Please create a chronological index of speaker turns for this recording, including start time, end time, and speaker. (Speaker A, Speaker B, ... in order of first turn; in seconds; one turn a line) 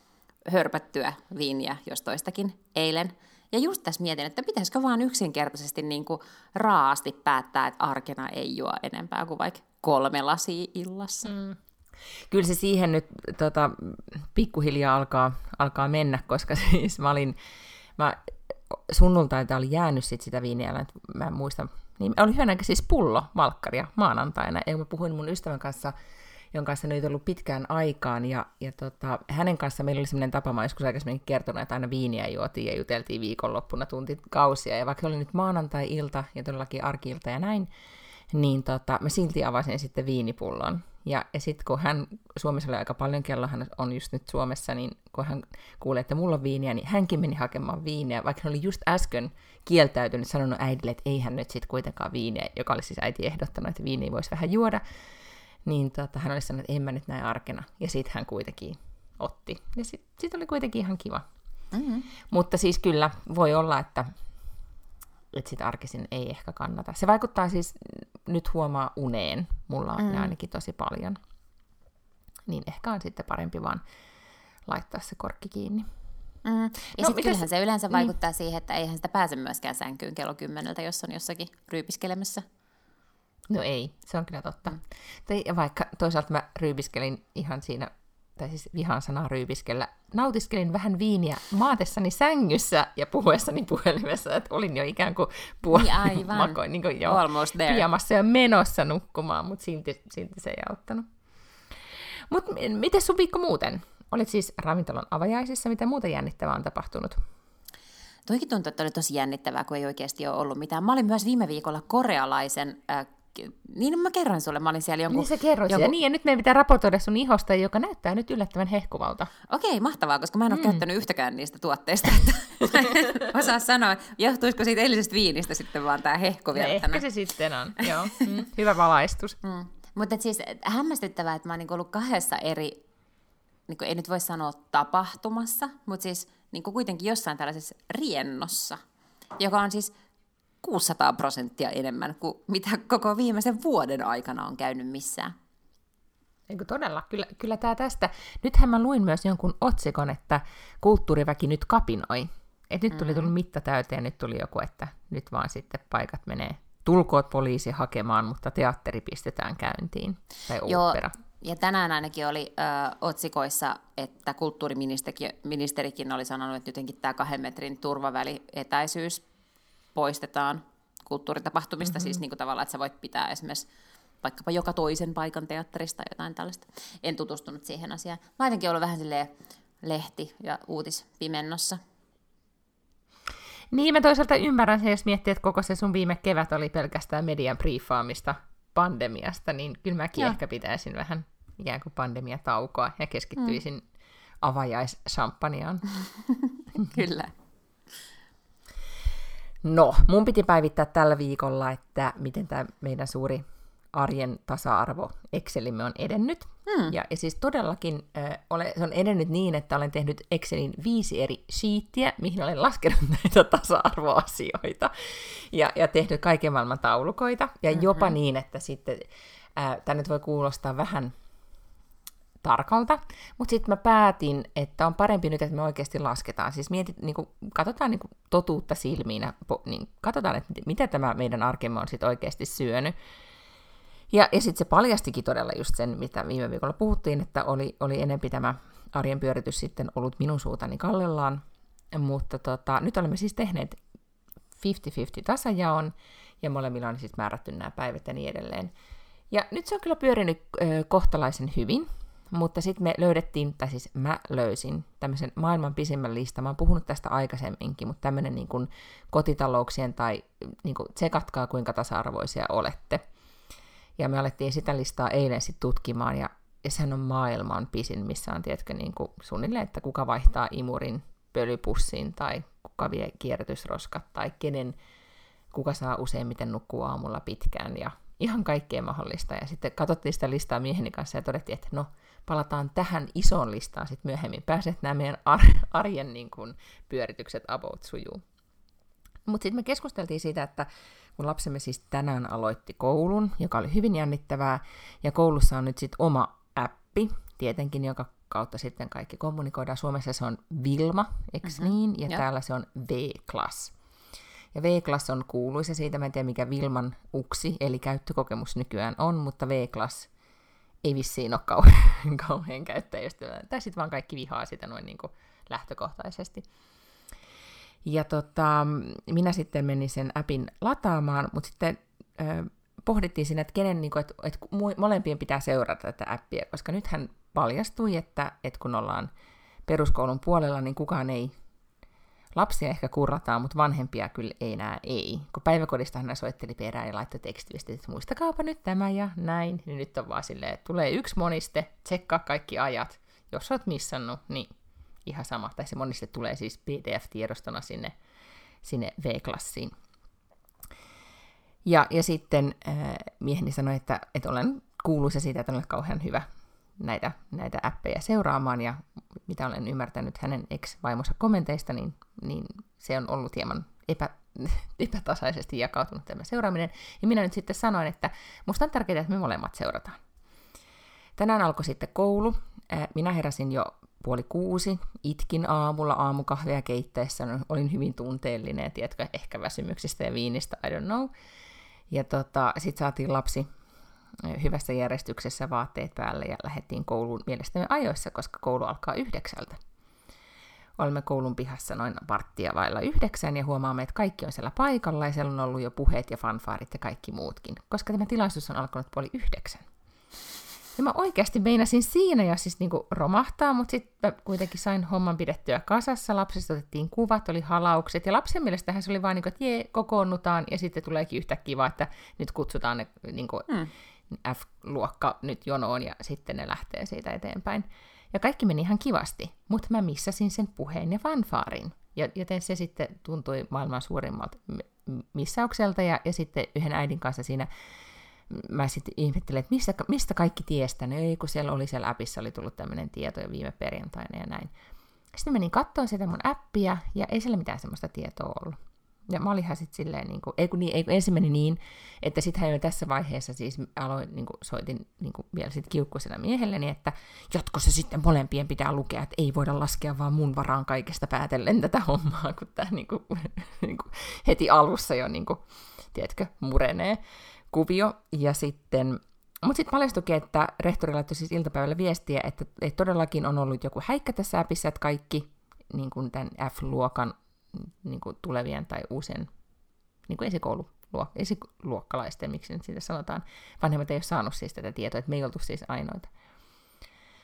Speaker A: 0.5-11.3
Speaker B: 11.2-11.6
Speaker B: 12.2-17.4
Speaker B: 18.0-25.9
Speaker B: 26.5-37.7
Speaker B: 38.3-54.8
Speaker B: 55.6-61.2
Speaker A: 61.7-62.1
Speaker B: 62.3-64.1
Speaker B: 65.3-71.2
Speaker A: 70.0-70.3
Speaker B: 72.5-73.8
Speaker B: 74.7-75.9
Speaker A: 76.4-82.4
Speaker B: 76.9-78.1
Speaker B: 83.5-101.0
Speaker A: 95.7-97.8
Speaker B: 102.3-107.2
Speaker A: 108.3-115.9
Speaker B: 115.1-119.3
Speaker A: 119.5-127.0
Speaker B: 120.5-120.8
Speaker B: 126.5-129.4
Speaker A: 127.8-128.3
Speaker A: 129.4-132.8
Speaker A: 133.7-138.8
Speaker A: 139.4-139.9
Speaker A: 140.6-145.3
Speaker B: 146.5-161.1
Speaker A: 152.9-153.3
Speaker A: 160.6-169.2
Speaker A: 169.9-173.7
Speaker B: 171.8-172.2
Speaker A: 174.2-181.8
Speaker B: 183.7-193.8
Speaker B: 194.4-195.8
Speaker A: 196.2-197.3
Speaker B: 199.6-221.1
Speaker A: 206.7-206.9
Speaker A: 217.7-218.1
Speaker B: 222.4-232.9
Speaker B: 234.1-243.8
Speaker B: 244.6-248.7
Speaker B: 249.3-263.0
Speaker B: 264.0-274.8
Speaker B: 275.5-288.2
Speaker B: 289.2-303.7
Speaker A: 301.4-302.2
Speaker B: 304.5-310.1
Speaker B: 310.8-316.4
Speaker B: 317.8-329.1
Speaker B: 329.7-331.3
Speaker B: 332.3-344.5
Speaker B: 345.1-347.9
Speaker B: 348.6-349.7
Speaker B: 351.6-356.3
Speaker B: 356.8-370.0
Speaker B: 371.2-381.1
Speaker B: 381.9-383.5
Speaker B: 384.2-389.6
Speaker B: 390.8-399.6
Speaker B: 400.8-413.5
Speaker B: 414.1-427.5
Speaker B: 428.3-434.5
Speaker B: 435.1-455.4
Speaker B: 455.9-469.3
Speaker B: 470.1-476.1